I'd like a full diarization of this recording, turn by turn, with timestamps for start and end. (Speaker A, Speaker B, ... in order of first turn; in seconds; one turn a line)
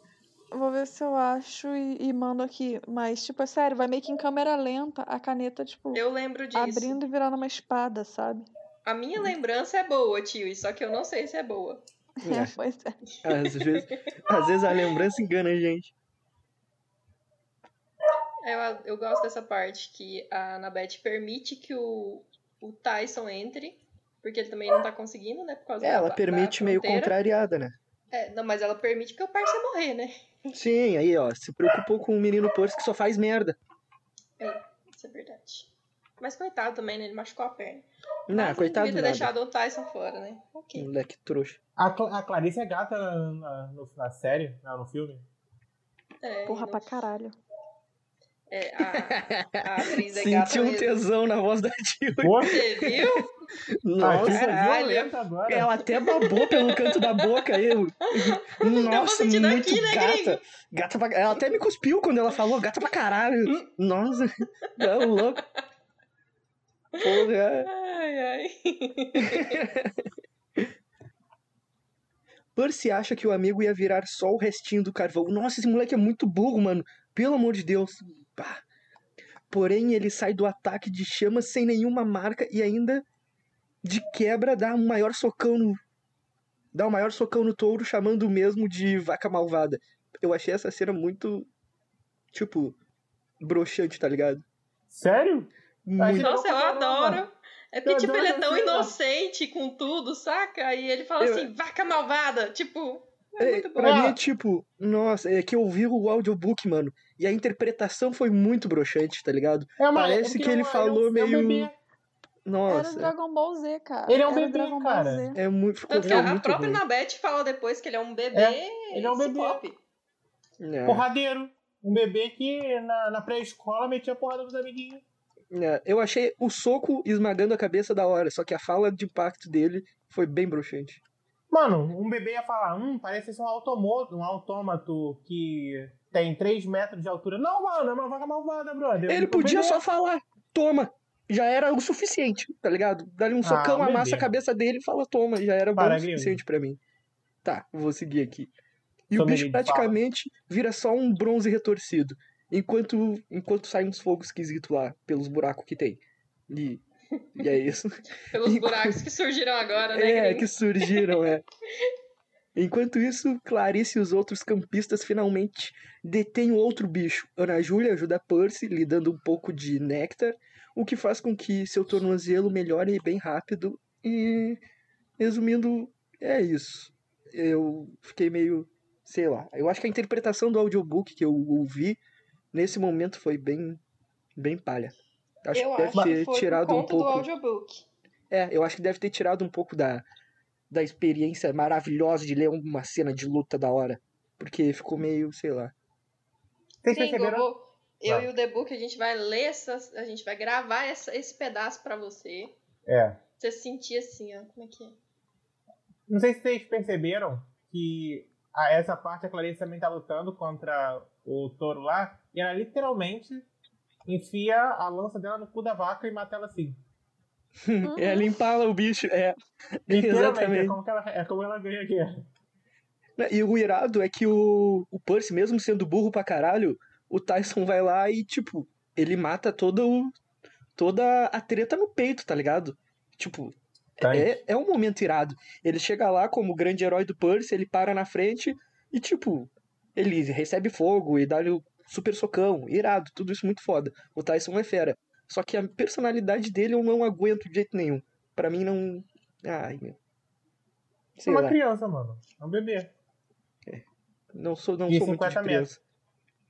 Speaker A: 0.5-6.0
Speaker B: 5.9-7.0
Speaker A: 6.5-8.5
Speaker B: 8.8-11.8
Speaker A: 12.2-13.0
Speaker C: 12.2-12.5
Speaker C: 13.2-15.9
Speaker B: 13.2-15.0
Speaker B: 18.4-27.1
Speaker C: 25.8-27.7
Speaker B: 28.1-30.3
Speaker C: 30.5-33.6
Speaker B: 34.4-40.9
Speaker C: 38.3-39.3
Speaker C: 40.7-41.6
Speaker D: 41.8-45.2
Speaker B: 46.2-47.0
Speaker A: 46.5-47.4
Speaker B: 48.5-50.9
Speaker C: 48.9-53.2
Speaker D: 52.2-52.5
Speaker B: 52.4-53.3
Speaker C: 53.8-54.6
Speaker D: 54.0-55.7
Speaker B: 54.1-55.1
Speaker C: 55.5-65.4
Speaker B: 56.0-60.4
Speaker B: 64.8-65.4
Speaker B: 67.0-69.6
Speaker C: 67.0-67.7
Speaker C: 69.2-70.7
Speaker C: 72.5-78.6
Speaker C: 79.5-83.0
Speaker C: 83.8-85.8
Speaker C: 86.7-91.5
Speaker C: 92.3-92.8
Speaker C: 93.4-94.4
Speaker D: 94.9-97.2
Speaker C: 95.8-96.3
Speaker B: 96.1-104.1
Speaker D: 97.8-98.9
Speaker C: 101.2-101.5
Speaker C: 103.4-111.7
Speaker D: 103.8-104.2
Speaker D: 109.8-111.7
Speaker C: 112.5-113.1
Speaker A: 112.7-115.4
Speaker D: 114.1-115.3
Speaker C: 115.3-116.8
Speaker B: 115.9-119.8
Speaker D: 116.0-116.3
Speaker D: 118.3-119.6
Speaker C: 120.6-121.0
Speaker D: 120.8-125.0
Speaker C: 125.5-131.0
Speaker D: 131.5-139.8
Speaker C: 139.1-146.8
Speaker D: 143.4-144.3
Speaker D: 145.8-146.4
Speaker C: 147.4-148.5
Speaker C: 149.1-156.8
Speaker D: 149.1-150.0
Speaker C: 157.3-159.0
Speaker B: 158.3-161.2
Speaker C: 159.9-161.4
Speaker C: 162.5-174.6
Speaker C: 175.2-182.0
Speaker C: 182.5-183.8
Speaker C: 184.3-184.9
Speaker C: 185.4-187.3
Speaker B: 185.5-187.8
Speaker C: 188.3-190.0
Speaker C: 190.7-195.7
Speaker D: 196.8-197.5
Speaker B: 196.9-202.6
Speaker D: 202.8-203.2
Speaker B: 203.4-205.0
Speaker D: 206.1-213.5
Speaker D: 214.1-216.8
Speaker C: 217.6-220.8
Speaker A: 217.8-218.3
Speaker D: 219.9-222.2
Speaker C: 223.2-230.1
Speaker C: 230.8-250.0
Speaker D: 234.0-234.4
Speaker C: 251.2-251.6
Speaker D: 251.2-252.9
Speaker C: 253.7-255.8
Speaker D: 254.9-255.7